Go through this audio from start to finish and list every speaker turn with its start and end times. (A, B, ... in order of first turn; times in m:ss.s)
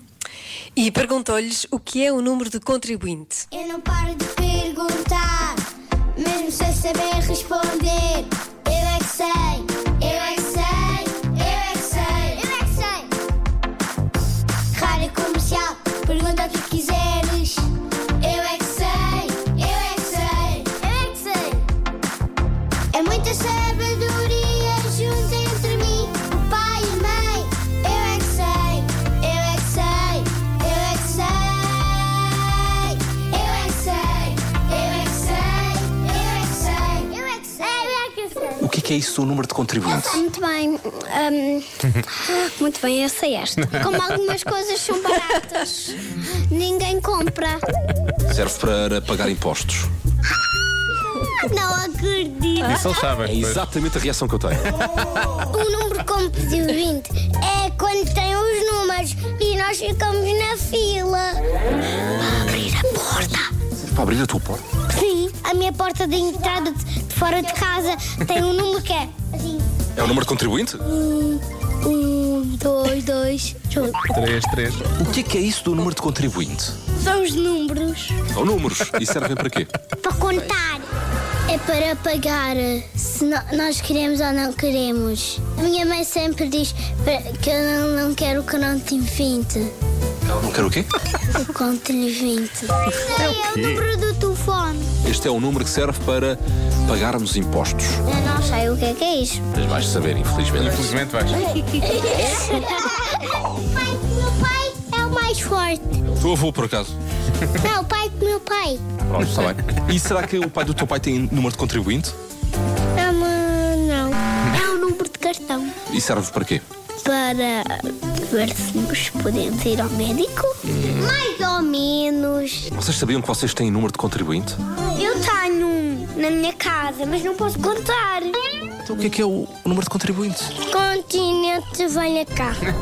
0:00.8-0:03.5 A
0:03.5-0:05.6 B
0:06.2-0:13.1 B
0:14.7-0:17.7 B
0:18.2-0:21.6 B
0:22.9-0:38.6 B
0:38.6-0:40.2 C
0:39.9-0:47.6 B
0:48.3-0:49.9 C
0:51.1-0:53.0 B
0:52.6-0:53.6 D
0:53.2-0:54.8 C
0:55.5-1:01.4 B
1:02.0-1:03.5 B
1:03.8-1:04.6 C
1:04.9-1:09.6 B
1:10.0-1:10.8 C
1:10.8-1:14.2 B
1:14.0-1:14.9 D
1:14.9-1:16.8 C
1:17.0-1:18.2 B
1:18.3-1:19.7 C
1:20.0-1:20.9 B
1:21.5-1:29.7 B
1:30.3-1:30.9 C
1:31.3-1:34.9 B
1:33.1-1:33.8 D
1:35.0-1:38.0 C
1:38.0-1:39.4 B
1:39.5-1:40.9 C
1:40.5-1:41.4 D
1:41.6-1:45.9 B
1:46.2-1:46.9 C
1:47.6-1:48.8 B
1:49.1-1:52.2 C
1:52.9-1:55.7 B
1:55.9-1:56.6 C
1:57.0-2:02.7 B
2:00.7-2:01.1 C
2:02.7-2:04.6 C
2:04.9-2:08.4 B
2:08.8-2:10.5 C
2:10.6-2:12.6 B